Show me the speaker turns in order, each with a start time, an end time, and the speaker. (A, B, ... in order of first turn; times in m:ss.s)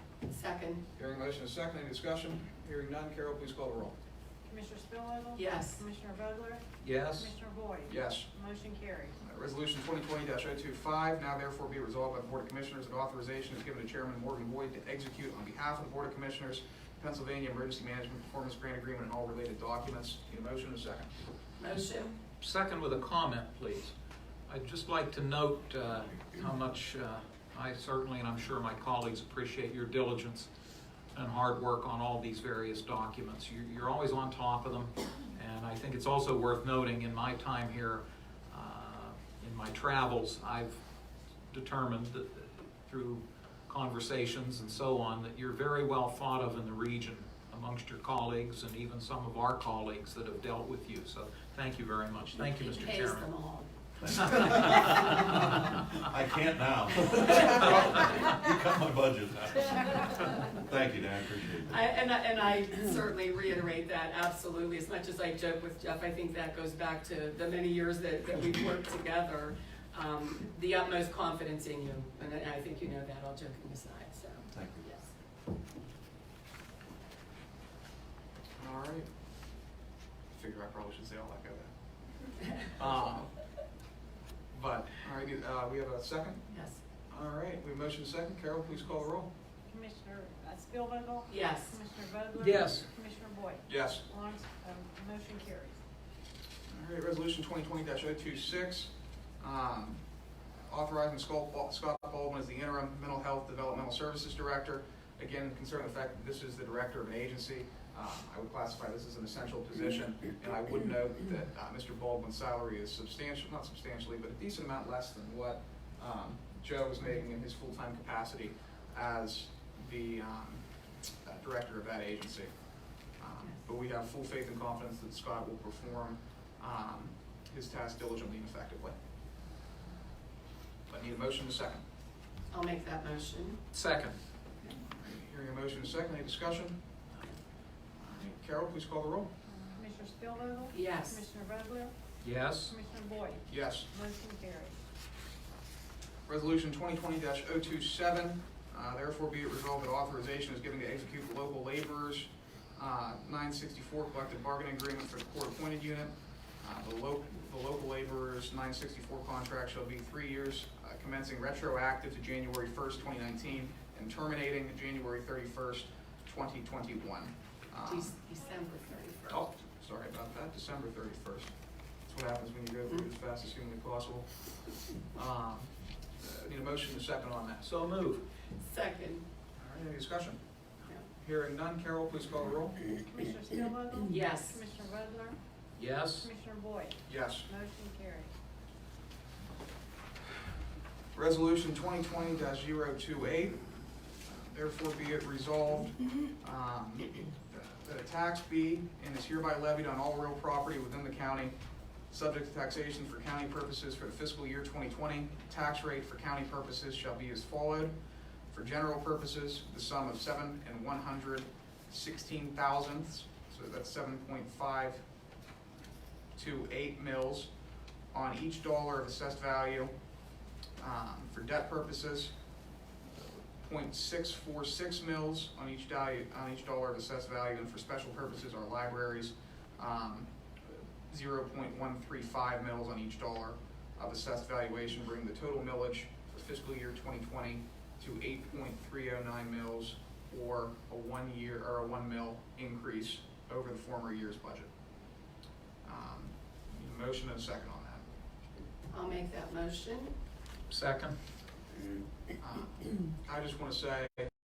0:00.3-0:00.8 A
0:01.0-0:03.9 B
0:04.4-0:09.2 C
0:05.4-0:05.8 A
0:06.8-0:07.3 D
0:07.9-0:08.3 B
0:09.2-0:21.1 B
0:21.6-0:22.2 A
0:22.4-0:23.9 D
0:24.5-0:30.5 D
0:31.1-0:40.8 D
0:41.5-0:53.3 D
0:52.5-0:53.7 A
0:54.0-1:01.8 E
0:54.1-0:55.6 D
1:01.7-1:15.0 A
1:14.5-1:14.8 E
1:18.6-1:19.1 B
1:20.3-1:21.7 B
1:22.7-1:23.3 B
1:24.5-1:26.5 B
1:26.5-1:26.8 A
1:27.1-1:29.3 B
1:29.6-1:35.8 C
1:31.3-1:31.7 A
1:32.4-1:32.8 D
1:33.7-1:34.0 B
1:36.7-1:40.0 B
1:40.6-2:00.6 B
2:01.2-2:02.5 B
2:03.2-2:08.9 B
2:10.9-2:11.8 B
2:12.5-2:13.6 A
2:13.7-2:14.2 D
2:14.9-2:16.8 B
2:18.0-2:19.3 B
2:19.6-2:21.9 C
2:20.7-2:21.2 A
2:22.2-2:22.7 D
2:22.7-2:24.8 C
2:23.5-2:23.9 B
2:26.2-2:48.1 B
2:47.9-2:49.4 A
2:49.3-2:51.5 B
2:52.1-2:54.5 B
2:55.1-2:57.6 B
2:57.6-2:58.2 D
2:58.6-2:59.2 A
2:59.6-3:00.4 B
3:01.1-3:02.9 B
3:03.0-3:05.4 C
3:04.1-3:04.6 A
3:05.8-3:06.3 D
3:06.2-3:08.3 C
3:07.1-3:07.5 B
3:11.1-3:13.6 B
3:14.2-3:21.5 B
3:22.1-3:27.9 B
3:28.5-3:35.0 B
3:36.3-3:37.5 B
3:38.1-3:39.9 B
3:40.8-3:42.3 B
3:43.0-4:04.7 B
4:05.8-4:08.0 B
4:08.9-4:10.1 A
4:10.7-4:11.2 D
4:12.4-4:14.3 B